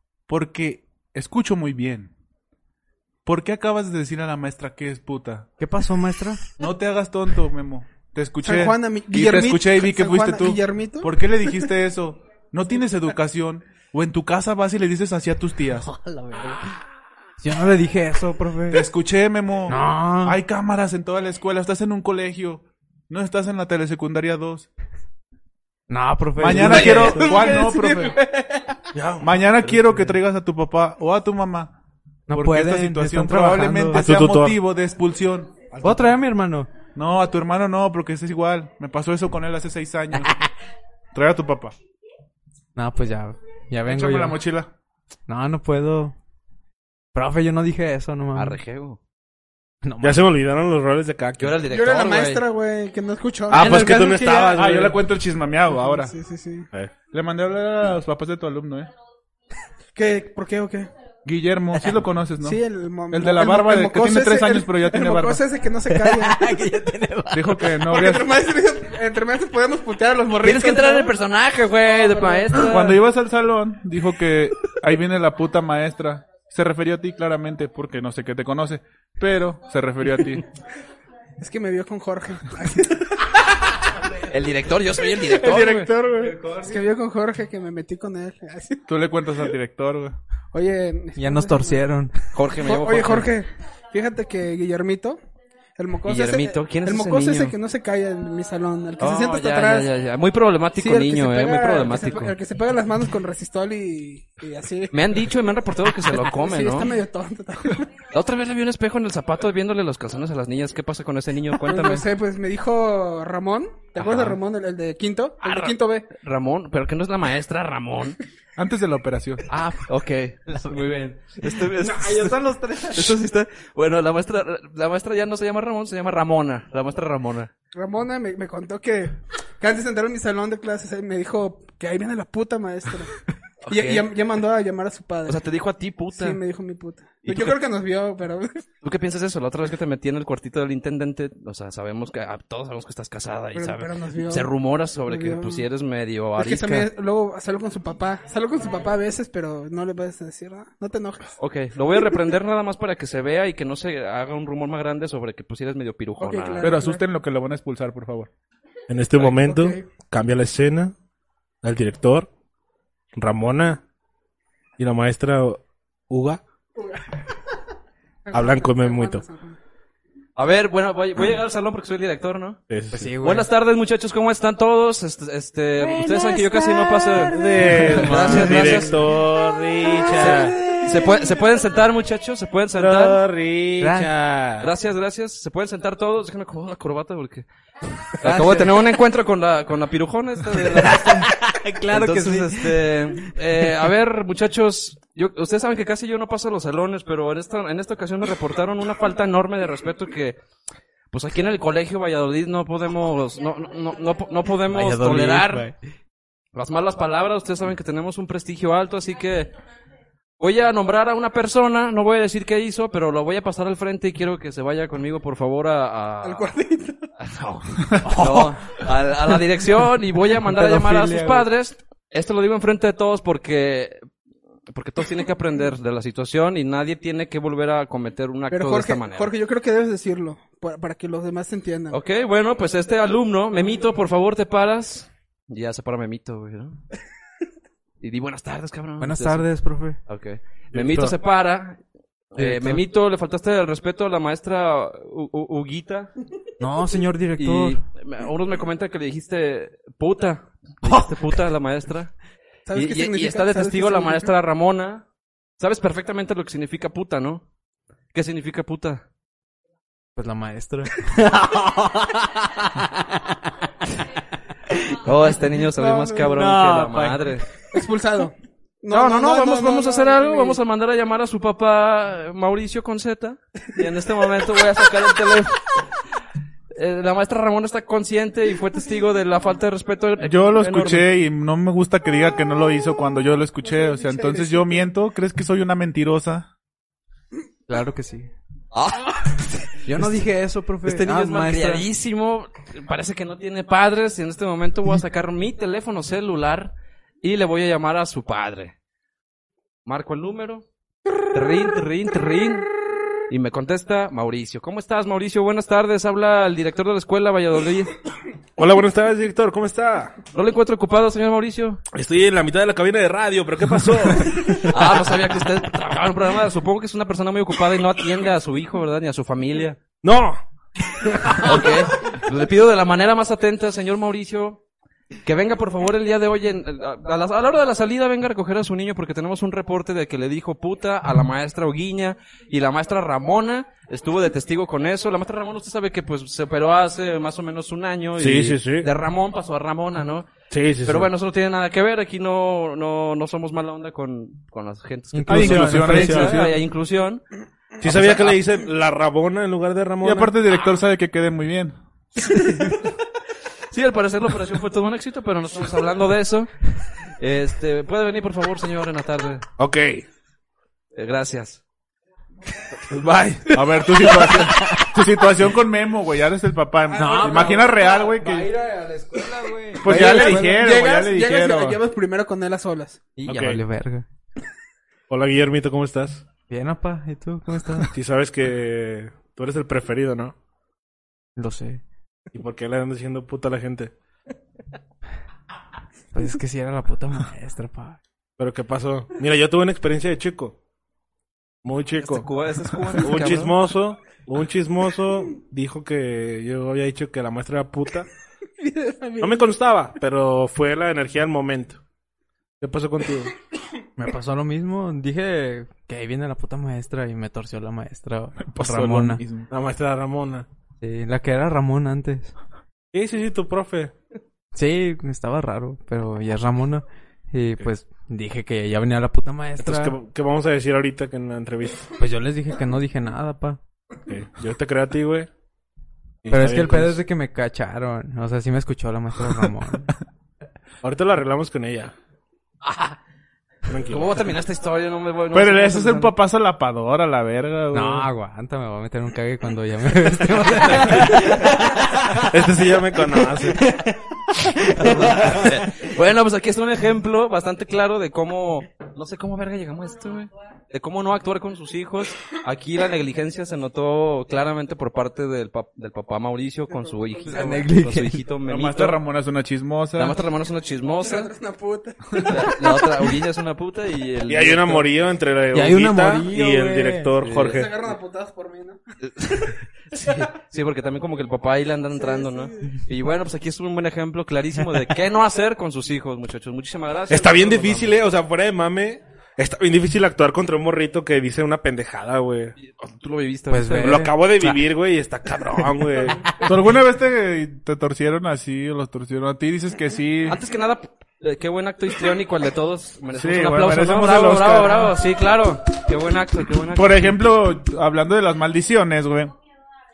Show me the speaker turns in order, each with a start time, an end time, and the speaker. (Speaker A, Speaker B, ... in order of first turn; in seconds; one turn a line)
Speaker A: 0.3-2.1
Speaker A: 3.2-5.5
Speaker B: 5.6-6.5
Speaker A: 6.6-15.9
Speaker C: 8.4-11.6
Speaker B: 15.9-16.6
Speaker B: 17.4-18.9
Speaker A: 18.7-24.7
Speaker B: 19.7-20.4
Speaker B: 25.9-27.5
Speaker A: 26.4-28.2
Speaker C: 26.7-28.8
Speaker A: 29.2-31.7
Speaker B: 32.3-34.0
Speaker A: 32.3-35.9
Speaker D: 34.0-34.6
Speaker B: 35.8-36.7
Speaker A: 37.0-40.3
Speaker A: 41.1-41.8
Speaker B: 42.8-44.4
Speaker A: 43.9-44.7
Speaker B: 45.3-46.1
Speaker B: 47.1-48.6
Speaker E: 48.4-49.0
Speaker B: 49.8-50.3
Speaker D: 50.0-51.6
Speaker E: 51.4-52.5
Speaker C: 51.7-54.7
Speaker D: 53.5-55.0
Speaker A: 54.5-56.1
Speaker C: 55.7-56.7
Speaker A: 57.1-58.9
Speaker C: 60.0-60.9
Speaker A: 61.2-65.4
Speaker C: 62.4-66.5
Speaker B: 65.9-67.7
Speaker A: 67.3-68.3
Speaker C: 67.8-71.1
Speaker E: 70.4-73.0
Speaker C: 71.9-72.7
Speaker A: 72.6-80.4
Speaker C: 81.4-83.3
Speaker E: 84.3-85.9
Speaker C: 85.3-88.8
Speaker B: 86.2-86.8
Speaker A: 88.9-90.2
Speaker C: 90.5-91.8
Speaker B: 91.2-92.1
Speaker E: 92.3-93.3
Speaker C: 92.6-95.2
Speaker C: 95.8-99.9
Speaker E: 96.1-97.5
Speaker E: 99.0-102.3
Speaker C: 100.8-105.2
Speaker E: 104.9-107.0
Speaker C: 106.1-107.9
Speaker E: 108.1-112.1
Speaker C: 111.6-116.1
Speaker E: 114.0-114.4
Speaker E: 115.4-118.2
Speaker A: 118.6-119.5
Speaker E: 119.5-127.5
Speaker B: 121.8-123.2
Speaker C: 127.7-133.1
Speaker E: 133.6-134.1
Speaker C: 133.7-135.4
Speaker E: 135.3-136.4
Speaker C: 136.1-138.6
Speaker E: 137.2-137.6
Speaker E: 138.8-146.9
Speaker C: 143.6-144.5
Speaker C: 145.1-145.7
Speaker C: 146.4-151.4
Speaker E: 151.4-156.7
Speaker C: 156.2-157.0
Speaker A: 156.6-158.3
Speaker D: 158.9-160.9
Speaker C: 159.2-159.9
Speaker D: 161.6-162.3
Speaker D: 163.1-163.8
Speaker D: 164.8-166.4
Speaker C: 166.8-167.2
Speaker C: 168.3-169.6
Speaker D: 168.3-169.2
Speaker E: 170.4-172.6
Speaker D: 172.7-173.1
Speaker B: 172.9-173.5
Speaker E: 173.2-179.2
Speaker D: 177.3-180.6
Speaker B: 177.5-179.1
Speaker B: 180.1-180.9
Speaker E: 180.2-183.2
Speaker D: 182.8-184.7
Speaker B: 183.8-184.2
Speaker E: 184.6-187.5
Speaker E: 188.2-191.4
Speaker B: 188.2-188.8
Speaker B: 190.8-193.3
Speaker E: 191.9-200.4
Speaker E: 201.1-205.7
Speaker B: 204.7-205.8
Speaker E: 206.5-209.5
Speaker E: 210.4-216.5
Speaker C: 216.2-217.1
Speaker E: 217.2-224.0
Speaker B: 218.0-218.5
Speaker B: 220.5-221.5
Speaker E: 224.7-229.3
Speaker C: 228.5-232.0
Speaker E: 231.9-236.8
Speaker E: 238.0-239.5
Speaker B: 239.0-240.0
Speaker E: 240.1-241.8
Speaker D: 240.7-241.1
Speaker E: 242.3-246.1
Speaker B: 242.4-242.8
Speaker B: 246.6-247.8
Speaker E: 247.4-252.1
Speaker C: 252.7-254.3
Speaker E: 252.7-255.1
Speaker E: 255.6-257.4
Speaker E: 258.1-259.0
Speaker B: 260.2-261.9
Speaker E: 265.0-267.5
Speaker C: 265.8-266.3
Speaker B: 266.3-267.3
Speaker C: 267.7-270.6
Speaker E: 268.9-275.8
Speaker E: 276.7-281.1
Speaker A: 280.2-286.5
Speaker C: 283.7-284.9
Speaker B: 287.7-288.3
Speaker E: 288.7-289.5
Speaker B: 289.8-291.9
Speaker E: 290.8-298.8
Speaker E: 299.9-300.6
Speaker E: 301.3-302.7
Speaker E: 303.3-307.9
Speaker D: 308.6-310.2
Speaker E: 310.3-311.8
Speaker D: 311.9-314.7
Speaker E: 314.2-319.8
Speaker D: 320.0-320.4
Speaker E: 321.3-324.6
Speaker E: 325.2-347.2
Speaker D: 338.2-338.9
Speaker D: 340.5-341.1
Speaker B: 345.1-346.4
Speaker A: 345.3-346.6
Speaker D: 347.8-350.3
Speaker E: 347.8-348.4
Speaker A: 350.0-351.8
Speaker E: 352.2-352.8
Speaker E: 353.7-359.5
Speaker D: 359.6-360.0
Speaker E: 360.9-361.6
Speaker D: 362.9-363.6
Speaker E: 363.5-364.6
Speaker A: 363.5-368.5
Speaker B: 366.9-370.6
Speaker A: 369.8-371.8
Speaker C: 369.9-373.0
Speaker B: 373.2-374.1
Speaker D: 373.2-373.6
Speaker D: 375.1-376.2
Speaker B: 376.5-377.9
Speaker D: 377.9-380.3
Speaker B: 381.4-381.8
Speaker D: 382.3-383.9
Speaker B: 386.1-388.0
Speaker D: 388.4-390.6
Speaker D: 391.6-392.3
Speaker E: 392.0-393.6
Speaker D: 393.0-398.1
Speaker C: 398.6-399.5
Speaker D: 399.2-401.8
Speaker D: 402.6-403.3
Speaker B: 404.0-409.2
Speaker A: 408.4-409.5
Speaker D: 409.5-410.5
Speaker B: 410.8-412.3
Speaker D: 412.9-413.9
Speaker B: 414.6-420.0
Speaker D: 419.6-421.9
Speaker B: 422.0-423.6
Speaker D: 424.1-425.3
Speaker D: 426.2-427.0
Speaker B: 426.3-429.9
Speaker D: 430.8-431.9
Speaker E: 432.6-433.0
Speaker D: 433.7-434.1
Speaker E: 433.9-436.1
Speaker A: 435.3-438.1
Speaker B: 437.7-442.1
Speaker E: 440.2-442.0
Speaker D: 442.3-443.6
Speaker E: 444.4-459.0
Speaker B: 444.7-445.4
Speaker C: 456.7-457.7
Speaker B: 457.3-458.2
Speaker A: 458.5-460.2
Speaker E: 460.0-461.3
Speaker C: 461.0-462.6
Speaker E: 462.2-464.9
Speaker D: 464.3-467.7
Speaker B: 465.5-467.1
Speaker E: 467.2-467.7
Speaker C: 467.4-468.8
Speaker E: 469.0-478.0
Speaker C: 471.9-472.8
Speaker D: 477.1-482.6
Speaker E: 482.6-484.1
Speaker B: 483.5-484.1
Speaker D: 483.8-486.3
Speaker A: 486.4-490.4
Speaker E: 490.3-497.3
Speaker A: 493.1-495.0
Speaker A: 496.7-499.3